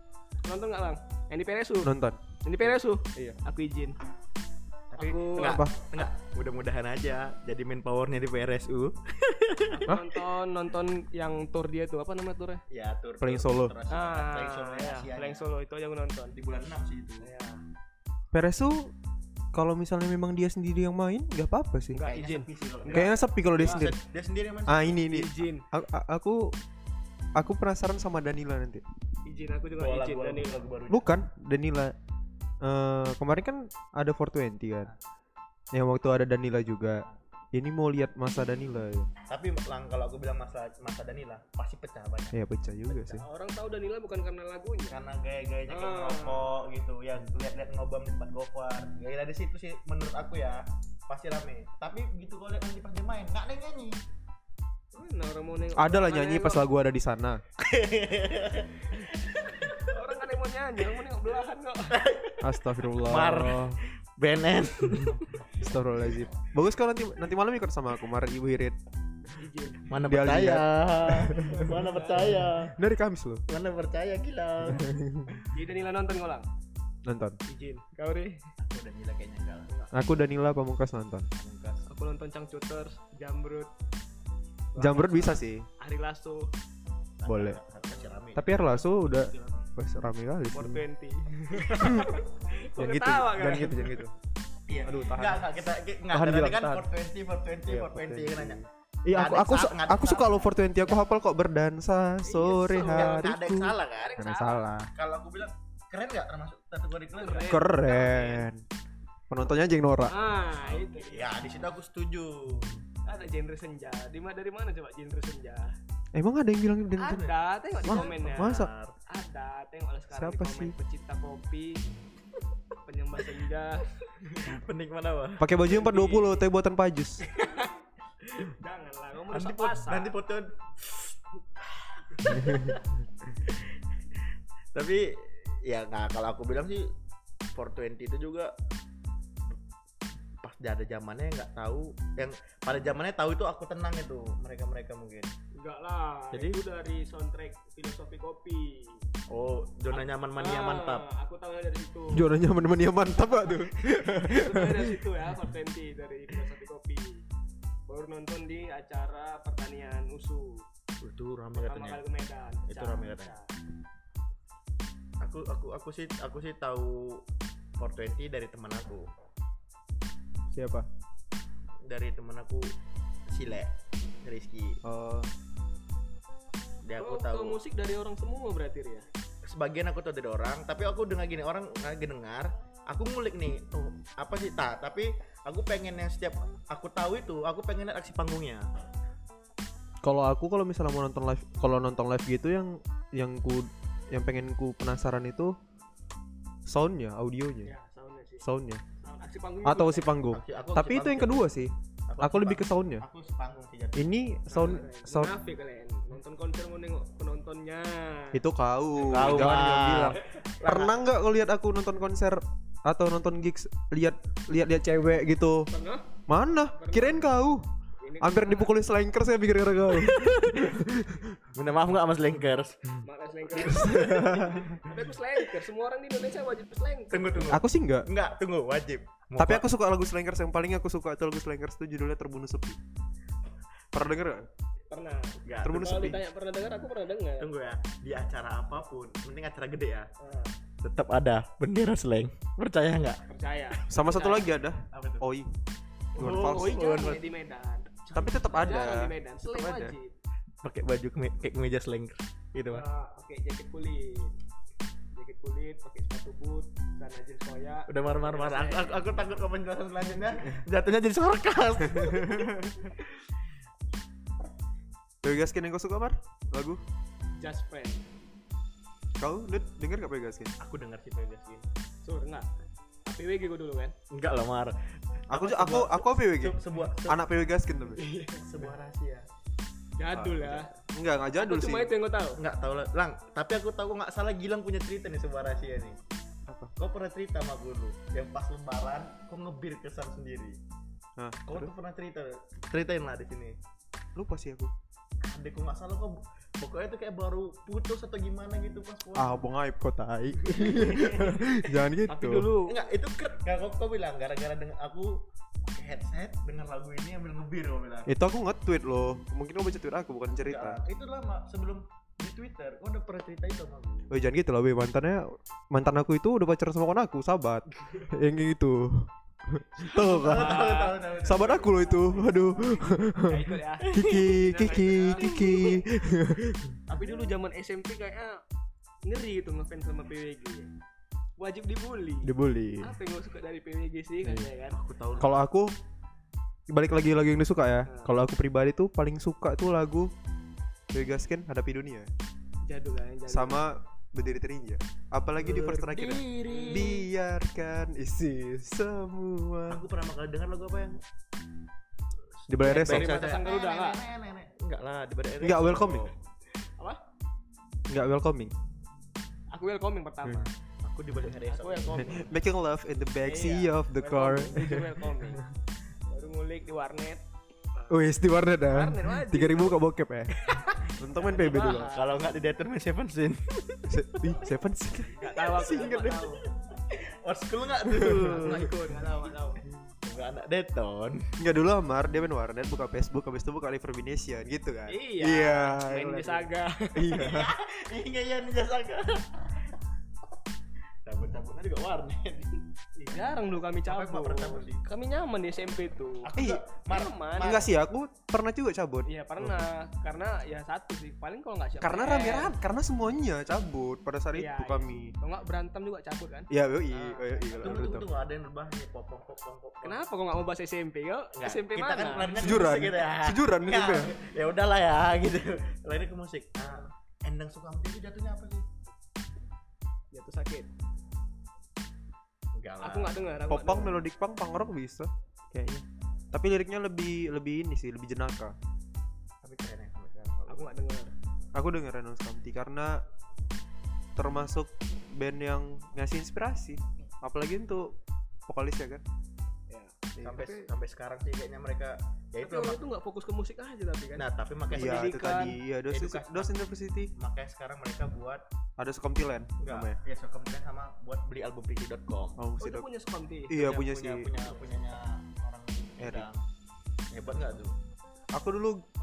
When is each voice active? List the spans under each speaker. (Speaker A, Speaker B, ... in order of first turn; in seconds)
Speaker A: 0.4-4.0, 5.0-6.0, 9.7-12.6, 13.9-16.4, 17.2-17.6, 21.9-23.2, 25.1-25.7, 29.2-30.6, 42.9-45.0, 45.7-46.6, 54.9-56.6, 59.8-62.0, 69.4-69.8, 71.4-72.4, 75.5-76.5, 77.5-78.4, 81.9-83.7, 84.7-86.5, 90.5-94.0, 102.2-103.2, 103.9-104.6, 107.2-108.4, 110.1-111.4, 113.0-115.7, 117.0-121.8, 122.8-124.6, 125.6-126.4, 127.2-127.7, 128.3-130.2, 145.5-149.0, 149.9-152.3, 154.1-157.2, 157.9-160.6, 161.5-163.5, 177.0-179.1, 197.6-198.5, 199.0-200.1, 204.5-208.4, 215.7-216.1, 216.7-217.2, 218.0-218.7, 223.0-227.6, 234.9-237.5, 240.2-240.5, 243.3-244.5, 246.2-250.1, 252.7-254.3, 255.1-259.0, 267.4-268.0, 272.0-272.5, 273.1-273.9, 278.0-278.4, 280.0-280.7, 281.4-282.4, 302.1-302.9, 319.8-325.8, 326.9-328.4, 329.0-330.7, 331.4-334.8, 337.9-338.1, 342.7-343.7, 346.5-346.8, 352.6-354.0, 359.5-360.5, 361.5-362.2, 363.2-365.4, 366.1-367.2, 367.7-368.0, 368.7-369.8, 370.4-372.1, 375.1-376.4, 378.2-379.6, 384.9-387.1, 393.1-396.3, 396.9-397.6, 399.1-402.5, 404.3-407.9, 409.8-412.6, 416.6-416.9, 420.1-420.7, 422.8-424.0, 430.5-431.1, 439.7-440.6, 442.4-445.6, 452.6-453.5, 454.4-454.7
Speaker B: 1.8-2.2, 5.4-5.7, 13.2-13.7, 18.3-18.9, 19.5-22.0, 22.9-24.0, 24.7-26.6, 27.4-28.8, 30.9-31.9, 32.6-34.9, 35.7-39.1, 42.3-43.2, 55.8-57.4, 62.4-63.8, 65.6-68.8, 70.0-71.7, 72.7-73.4, 74.7-75.4, 77.0-77.4, 79.9-81.3, 84.8-85.7, 87.2-87.6, 88.3-90.8, 91.8-92.1, 92.8-94.1, 94.8-95.5, 96.1-96.8, 97.7-104.9, 107.5-108.6, 109.3-110.1, 116.1-117.2, 117.8-118.7, 120.1-120.7, 125.4-127.2, 152.1-155.0, 170.5-170.9, 174.8-175.3, 190.0-195.5, 196.7-197.7, 198.4-198.8, 199.6-203.1, 203.9-205.3, 208.3-215.7, 216.3-217.6, 218.2-221.3, 223.8-224.7, 227.5-228.1, 229.4-232.8, 233.9-234.5, 235.6-236.2, 243.9-245.5, 246.2-246.8, 248.1-249.9, 261.9-262.7, 265.2-266.8, 269.2-270.5, 275.3-278.0, 280.1-281.9, 286.5-286.7, 291.2-291.7, 294.1-294.7, 299.1-302.5, 308.1-310.8, 314.1-320.6, 321.2-326.8, 332.2-332.9, 334.2-334.5, 335.2-335.7, 336.7-340.1, 340.9-342.1, 343.3-349.8, 352.5-353.2, 355.4-356.1, 357.9-358.5, 361.9-365.2, 367.9-370.4, 370.9-371.9, 373.9-376.0, 377.9-378.5, 381.4-387.5, 396.4-396.6, 397.4-399.7, 401.8-405.1, 406.5-408.1, 412.4-414.1, 423.5-428.6, 431.5-433.0, 434.1-439.0, 444.7-447.1, 448.8-450.0, 452.4-452.9, 453.5-454.3, 456.0-456.2, 458.3-458.8
Speaker C: 4.9-9.8, 12.7-15.5, 16.3-17.3, 22.1-25.0, 29.8-31.1, 39.3-42.4, 44.9-54.0, 57.6-59.9, 61.9-65.3, 69.9-72.7, 73.5-74.8, 78.6-79.7, 81.3-81.8, 87.2-89.7, 94.7-98.6, 99.1-101.0, 102.7-104.2, 104.9-108.1, 110.5-112.8, 117.0-119.0, 124.4-125.4, 129.3-131.1, 131.7-132.8, 134.7-136.9, 137.5-138.5, 140.4-145.3, 146.3-146.6, 149.3-151.0, 161.0-162.0, 162.7-163.3, 165.2-167.2, 167.8-169.1, 171.8-172.7, 173.3-173.7, 174.2-174.8, 176.8-177.6, 179.4-188.7, 200.3-201.5, 202.1-204.1, 209.0-211.0, 220.0-220.8, 221.5-225.1, 227.1-229.7, 235.4-236.1, 237.4-240.1, 240.8-243.2, 244.9-245.2, 246.2-247.2, 248.1-248.9, 250.6-252.8, 257.9-263.1, 270.6-271.6, 274.1-274.7, 275.3-277.2, 278.3-279.3, 282.4-286.0, 286.8-290.6, 291.5-293.6, 295.2-299.5, 300.5-301.4, 302.6-308.1, 310.3-314.1, 320.1-321.9, 323.9-324.4, 325.2-325.8, 326.9-327.3, 334.7-335.4, 345.4-347.0, 349.7-351.0, 352.5-356.1, 360.8-362.3, 371.5-374.4, 375.6-379.4, 380.0-381.3, 387.1-389.7, 391.0-394.8, 396.2-397.7, 407.5-410.0, 411.3-418.6, 422.5-423.3, 429.4-430.7, 440.2-442.8, 444.2-445.1, 445.9-446.5, 447.1-448.4, 449.6-452.4, 453.5-456.4, 457.1-457.8